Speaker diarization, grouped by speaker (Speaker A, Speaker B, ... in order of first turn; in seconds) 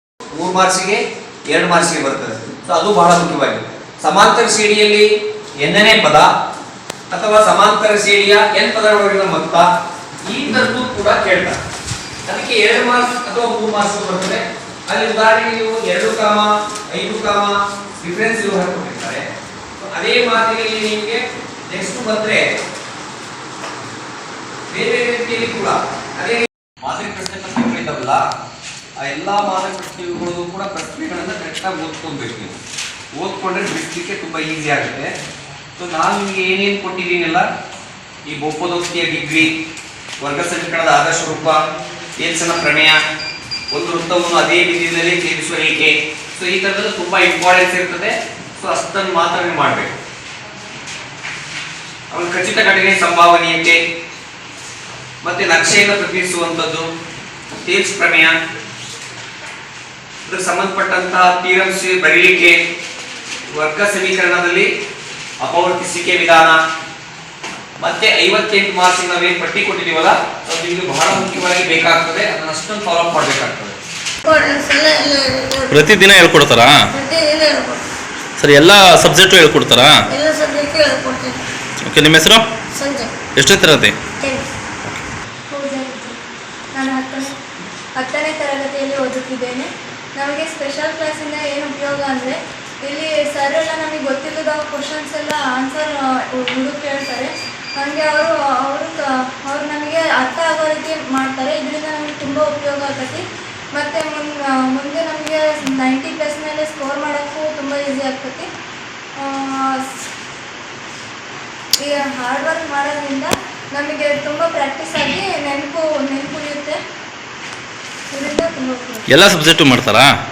Speaker A: 0.3-5.1, 5.6-6.3, 7.1-9.7, 10.3-11.6, 12.3-19.3, 19.8-22.4, 24.7-28.2, 29.0-32.5, 33.2-35.1, 35.8-37.5, 38.3-39.5, 40.2-41.6, 42.2-43.0, 43.7-49.9, 52.1-53.8, 55.2-56.9, 57.6-58.3, 60.3-62.6, 63.5-64.7, 65.4-66.6, 67.8-73.8
Speaker B: 74.2-75.7, 76.9-77.8, 80.1-81.5, 82.8-83.2, 84.2-84.5
Speaker C: 75.7-76.9, 78.4-79.9, 81.8-82.4, 83.4-84.0, 119.1-120.1
Speaker D: 85.5-86.2, 86.7-87.3, 88.0-103.2, 103.7-108.5, 109.2-109.9, 111.8-116.8, 118.1-119.1